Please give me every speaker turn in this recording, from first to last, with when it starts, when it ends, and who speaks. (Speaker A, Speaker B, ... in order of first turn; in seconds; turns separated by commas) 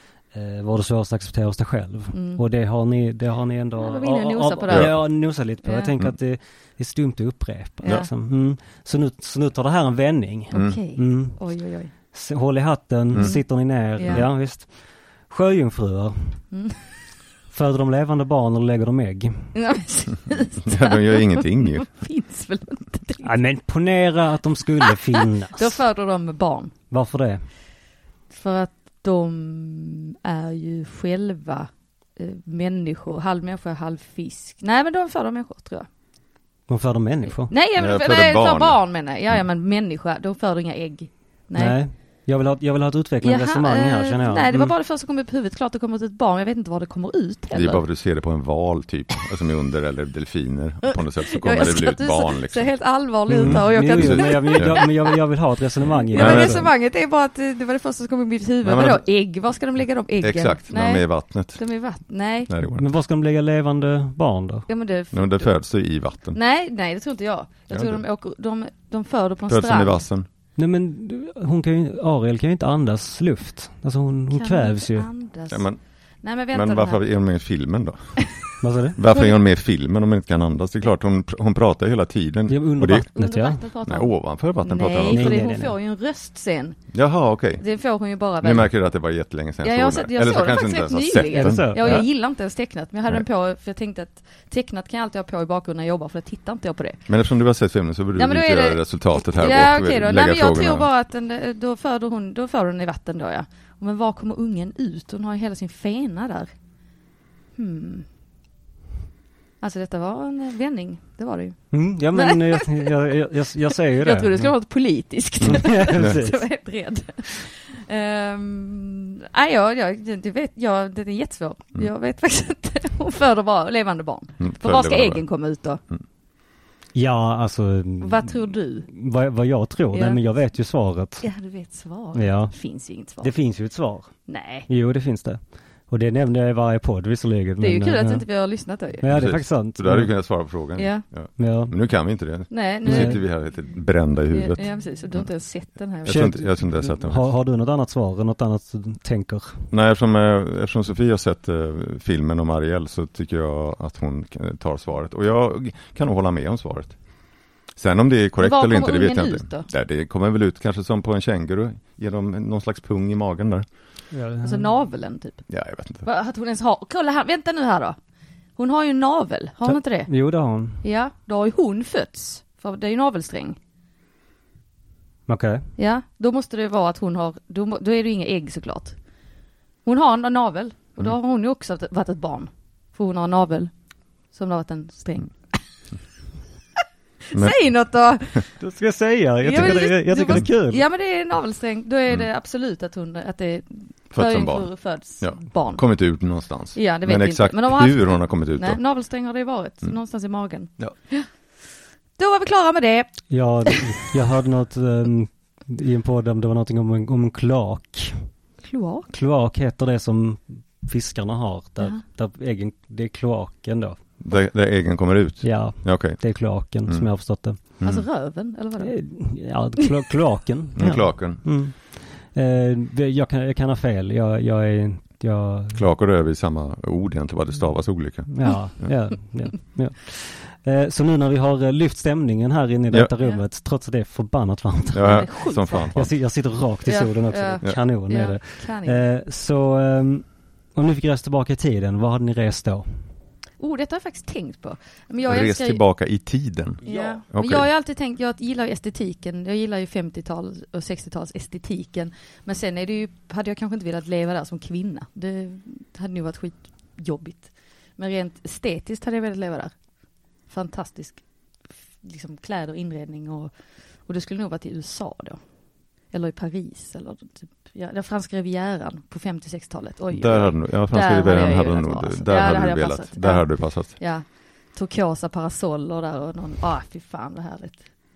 Speaker A: 0.3-11.4, Speaker B: 2.1-2.4, Speaker B: 3.8-5.0, Speaker C: 4.7-5.0, Speaker B: 5.6-5.9, Speaker B: 7.8-8.1, Speaker B: 10.5-11.9, Speaker C: 10.5-10.8, Speaker A: 12.1-16.4, Speaker B: 13.2-14.3, Speaker B: 16.5-16.8, Speaker A: 17.5-19.5, Speaker B: 19.6-23.3, Speaker C: 20.6-21.9, Speaker A: 23.2-25.8, Speaker B: 25.5-26.7, Speaker A: 26.9-27.5, Speaker B: 28.3-35.9, Speaker A: 36.7-37.5, Speaker B: 37.5-41.8, Speaker C: 37.8-38.8, Speaker A: 41.5-44.7, Speaker B: 43.2-47.8, Speaker C: 47.5-52.7, Speaker B: 50.9-55.1, Speaker A: 53.3-56.7, Speaker C: 53.3-54.8, Speaker B: 56.0-62.5, Speaker C: 56.1-56.7, Speaker C: 58.6-59.0, Speaker C: 60.2-61.6, Speaker C: 62.5-62.9, Speaker A: 62.6-64.7, Speaker B: 64.7-65.5, Speaker C: 65.1-66.4, Speaker B: 66.3-70.0, Speaker C: 67.7-68.0, Speaker C: 69.5-70.3, Speaker A: 70.6-75.1, Speaker B: 74.3-77.0, Speaker C: 75.5-75.8, Speaker C: 76.5-78.3, Speaker A: 78.6-79.0, Speaker C: 79.0-83.0, Speaker B: 79.1-79.4, Speaker A: 82.5-83.6, Speaker B: 82.9-86.9, Speaker C: 83.8-85.5, Speaker A: 85.1-85.7, Speaker C: 86.9-87.6, Speaker B: 87.6-88.7, Speaker C: 88.4-92.0, Speaker B: 89.6-97.0, Speaker A: 91.3-92.0, Speaker C: 97.1-100.9, Speaker B: 98.2-106.5, Speaker B: 107.5-108.1, Speaker B: 109.6-112.9, Speaker A: 111.7-114.5, Speaker B: 113.9-125.8, Speaker C: 115.4-116.2, Speaker A: 115.4-116.4, Speaker C: 124.4-125.2, Speaker A: 127.0-131.3, Speaker B: 128.0-128.9, Speaker B: 129.9-130.2, Speaker B: 131.2-133.3, Speaker A: 132.1-132.6, Speaker A: 133.2-138.2, Speaker B: 134.3-134.7, Speaker B: 137.6-139.1, Speaker A: 139.0-140.1, Speaker C: 139.1-145.2, Speaker B: 140.8-141.1, Speaker A: 141.4-141.7, Speaker B: 142.5-143.3, Speaker A: 142.9-143.2, Speaker B: 144.3-146.3, Speaker C: 146.0-147.2, Speaker A: 146.1-149.7, Speaker C: 149.7-157.0, Speaker C: 157.8-163.7, Speaker B: 158.4-159.7, Speaker A: 164.1-164.7, Speaker B: 164.4-165.4, Speaker C: 165.5-166.1, Speaker B: 166.0-168.0, Speaker B: 168.6-170.1, Speaker A: 169.7-170.8, Speaker B: 170.8-173.6, Speaker A: 175.3-175.7, Speaker B: 175.8-179.0, Speaker B: 179.8-183.7, Speaker B: 184.3-185.6, Speaker B: 187.3-188.6, Speaker A: 188.6-190.8, Speaker B: 189.4-195.8, Speaker C: 194.1-198.8, Speaker B: 196.7-201.3, Speaker B: 202.2-203.8, Speaker A: 203.3-208.3, Speaker B: 208.6-209.1, Speaker A: 209.1-214.0, Speaker C: 214.2-216.2, Speaker A: 215.4-217.7, Speaker C: 217.8-218.1, Speaker B: 217.8-219.5, Speaker A: 218.8-225.8, Speaker C: 220.8-221.6, Speaker C: 225.7-228.9, Speaker A: 228.3-243.1, Speaker C: 234.9-236.1, Speaker B: 235.0-235.9, Speaker B: 236.8-239.1, Speaker B: 243.6-245.8, Speaker C: 245.2-247.7, Speaker B: 246.8-259.7, Speaker A: 246.9-247.1, Speaker B: 260.5-261.3, Speaker B: 262.0-265.4, Speaker B: 266.0-278.0, Speaker C: 270.1-273.9